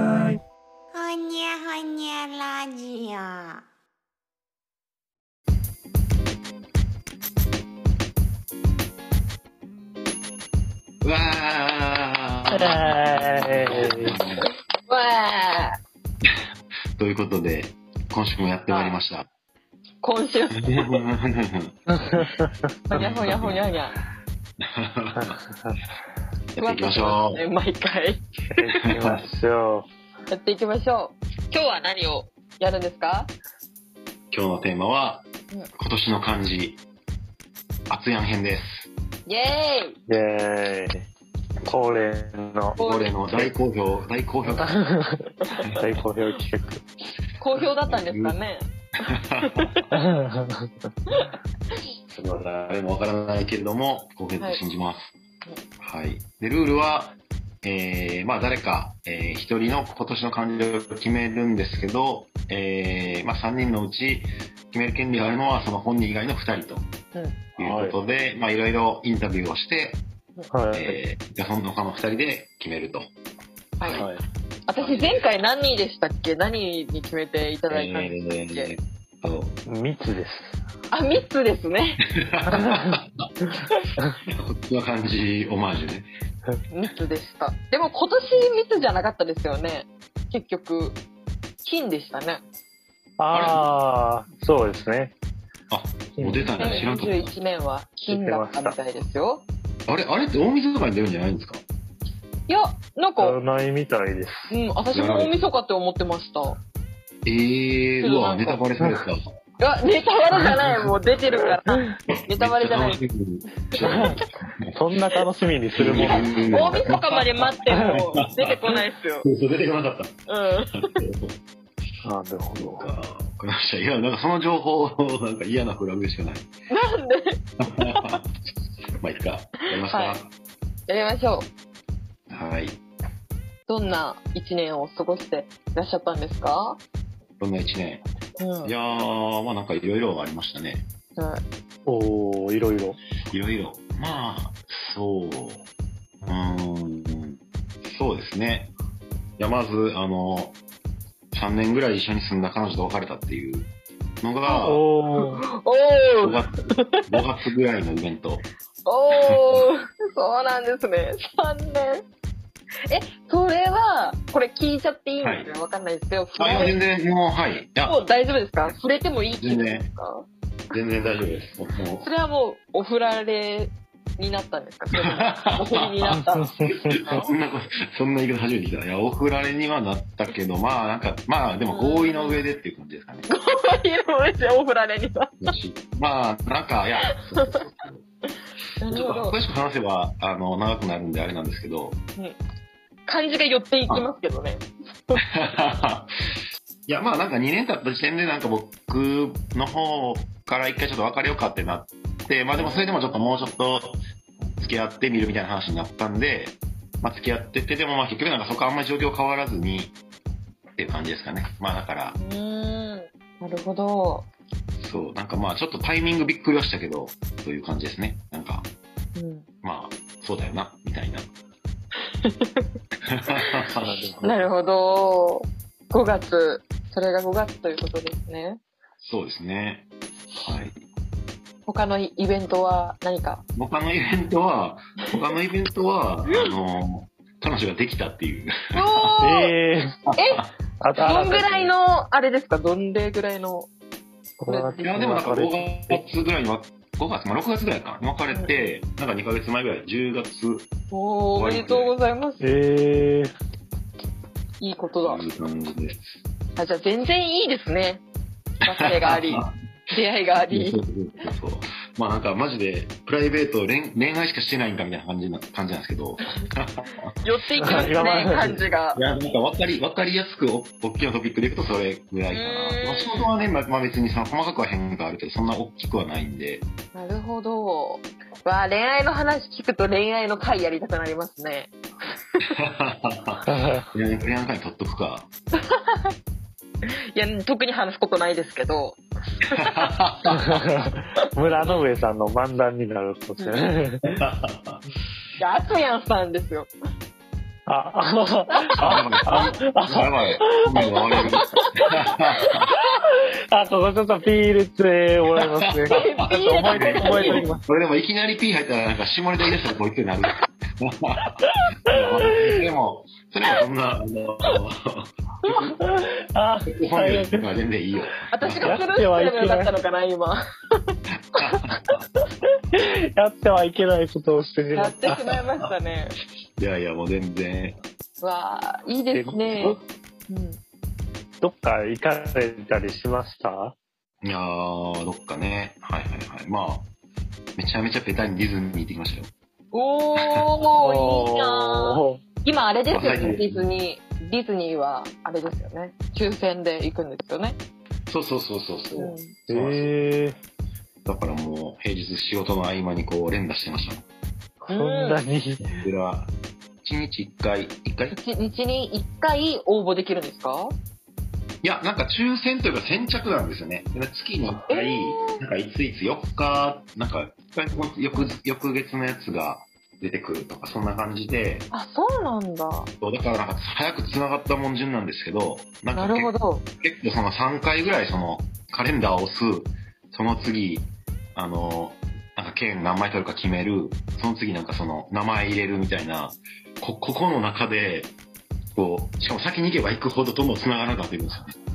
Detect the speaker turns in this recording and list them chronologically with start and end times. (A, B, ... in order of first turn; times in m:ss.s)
0:00.9-0:03.6 A
0:11.0-0:14.5 B
0:12.5-0:14.2 C
0:14.8-0:15.7 D
0:17.0-0:19.3 B
0:18.7-0:19.0 D
0:20.0-0:21.0 D
0:20.6-0:21.7 B
0:21.9-0:23.0 C
0:22.9-0:24.0 D
0:22.9-0:23.7 B
0:24.6-0:25.4 B
0:25.1-0:25.8 C
0:26.5-0:27.4 B
0:26.6-0:28.2 D
0:28.5-0:29.9 C
0:28.8-0:29.2 B
0:30.3-0:33.3 D
0:34.3-0:35.2 B
0:35.8-0:36.8 B
0:37.9-0:38.9 B
0:39.2-0:40.0 D
0:40.1-0:41.0 C
0:41.6-0:42.8 C
0:42.8-0:44.8 B
0:42.8-0:43.2 D
0:44.4-0:45.2 C
0:45.7-0:46.0 B
0:45.7-0:46.8 C
0:47.4-0:48.7 D
0:47.8-0:48.4 B
0:49.3-0:49.8 B
0:49.4-0:49.8 D
0:49.9-0:50.5 C
0:52.1-0:55.1 B
0:55.8-1:06.9 B
1:07.1-1:07.4 D
1:07.6-1:08.0 C
1:07.6-1:10.0 B
1:10.5-1:11.0 C
1:10.7-1:13.1 B
1:13.8-1:14.1 D
1:13.8-1:14.1 B
1:14.0-1:14.2 C
1:14.7-1:18.7 D
1:14.8-1:15.2 B
1:17.7-1:19.6 B
1:19.6-1:20.6 C
1:20.9-1:22.0 D
1:22.3-1:23.3 B
1:22.6-1:22.9 C
1:24.3-1:26.1 B
1:26.7-1:31.0 D
1:31.6-1:32.4 D
1:33.2-1:35.1 C
1:33.3-1:33.6 B
1:35.7-1:37.3 B
1:36.2-1:36.6 C
1:36.6-1:39.4 D
1:38.1-1:38.8 C
1:39.9-1:41.6 B
1:42.5-1:43.4 D
1:43.2-1:44.5 C
1:44.5-1:46.6 D
1:44.9-1:45.3 B
1:47.2-1:49.2 B
1:48.0-1:48.6 D
1:49.6-1:53.0 D
1:52.3-1:54.7 B
1:53.7-1:54.1 D
1:53.8-1:54.1 C
1:54.7-1:56.6 C
1:55.8-1:58.6 B
1:56.0-1:59.3 D
1:57.7-1:58.0 C
1:59.2-2:00.2 B
2:00.3-2:01.0 D
2:00.7-2:01.4 B
2:02.0-2:02.9 C
2:02.7-2:06.5 B
2:06.7-2:08.2 D
2:07.8-2:08.2 B
2:09.0-2:10.3 B
2:09.8-2:10.2 D
2:10.9-2:11.5 D
2:12.3-2:12.8 B
2:13.7-2:16.8 D
2:17.4-2:18.0 B
2:18.4-2:18.7 D
2:18.6-2:20.8 B
2:21.2-2:21.4 D
2:21.8-2:23.0 C
2:23.3-2:25.6 B
2:26.2-2:28.7 B
2:29.4-2:30.6 B
2:31.3-2:33.7 B
2:34.2-2:34.8 B
2:34.5-2:35.4 C
2:35.4-2:37.0 D
2:36.2-2:38.4 B
2:38.8-2:42.0 D
2:39.2-2:39.6 B
2:42.9-2:46.8 D
2:45.2-2:45.5 B
2:46.4-2:48.0 B
2:47.8-2:50.3 D
2:49.4-2:49.9 B
2:50.7-2:52.1 B
2:52.0-2:57.2 D
2:55.0-2:56.2 B
2:56.2-2:57.2 C
2:57.1-3:03.3 B
3:01.7-3:02.4 D
3:03.3-3:05.5 D
3:05.4-3:08.0 B
3:07.1-3:07.6 D
3:08.8-3:09.4 D
3:08.9-3:12.0 B
3:13.0-3:15.2 D
3:15.3-3:16.1 B
3:16.9-3:24.0 B
3:22.5-3:23.3 D
3:24.6-3:30.0 B
3:30.8-3:32.2 B
3:32.2-3:34.3 D
3:34.8-3:38.7 B
3:39.2-3:39.4 D
3:39.6-3:41.2 B
3:42.2-3:42.7 D
3:43.1-3:43.7 B
3:43.7-3:44.5 C
3:44.2-3:48.6 D
3:49.0-3:49.9 B
3:50.4-3:50.8 B
3:51.6-3:53.4 D
3:53.6-3:59.2 B
3:58.7-3:59.5 D
3:59.2-4:00.0 C
4:00.1-4:00.5 B
4:00.1-4:00.4 D
4:00.8-4:01.7 C
4:01.0-4:03.7 D
4:04.4-4:06.0 C
4:04.5-4:04.8 D
4:04.8-4:10.7 B
4:08.3-4:08.6 D
4:10.9-4:12.5 D
4:11.3-4:11.9 B
4:12.4-4:13.3 C
4:14.6-4:15.3 D
4:15.0-4:16.1 B
4:16.6-4:18.0 D
4:18.6-4:20.8 D
4:18.6-4:19.5 B
4:20.4-4:27.1 B
4:27.2-4:29.0 D
4:27.6-4:28.5 C
4:27.7-4:36.6 B
4:32.3-4:33.3 D
4:36.9-4:41.7 D
4:42.6-4:45.3 B
4:43.4-4:43.9 C
4:45.7-4:46.1 D
4:47.1-4:49.9 D
4:49.5-4:50.4 B
4:50.3-4:54.1 C
4:54.0-4:54.8 B
4:55.4-4:56.7 D
4:57.7-5:00.9 C
4:58.6-4:58.9 D
4:58.8-5:02.6 B
5:02.1-5:02.6 D
5:03.5-5:07.6 C
5:05.4-5:11.3 B
5:05.9-5:07.5 D
5:11.3-5:12.4 C
5:11.9-5:15.1 B
5:15.6-5:17.4 C
5:16.7-5:18.8 B
5:18.3-5:20.9 D
5:18.6-5:19.7 C
5:21.4-5:22.0 B
5:22.7-5:25.2 C
5:24.7-5:26.2 D
5:26.6-5:27.8 B
5:28.2-5:30.6 D
5:29.1-5:29.8 C
5:31.4-5:33.7 C
5:34.2-5:36.9 B
5:37.6-5:39.3 B
5:39.7-5:47.6 D
5:40.2-5:40.4 B
5:40.8-5:42.2 C
5:42.9-5:43.6 B
5:48.1-5:50.0 B
5:48.9-5:49.4 D
5:49.5-5:50.4 C
5:51.0-5:54.0 B
5:54.6-5:55.7 C
5:54.7-5:55.2 D
5:55.7-5:56.3 B
5:56.8-5:58.2 B
5:58.1-6:00.8 D
6:01.6-6:11.7 B
6:04.4-6:05.4 D
6:11.7-6:12.9 D
6:13.0-6:28.1 B
6:15.9-6:16.6 D
6:28.7-6:31.6 B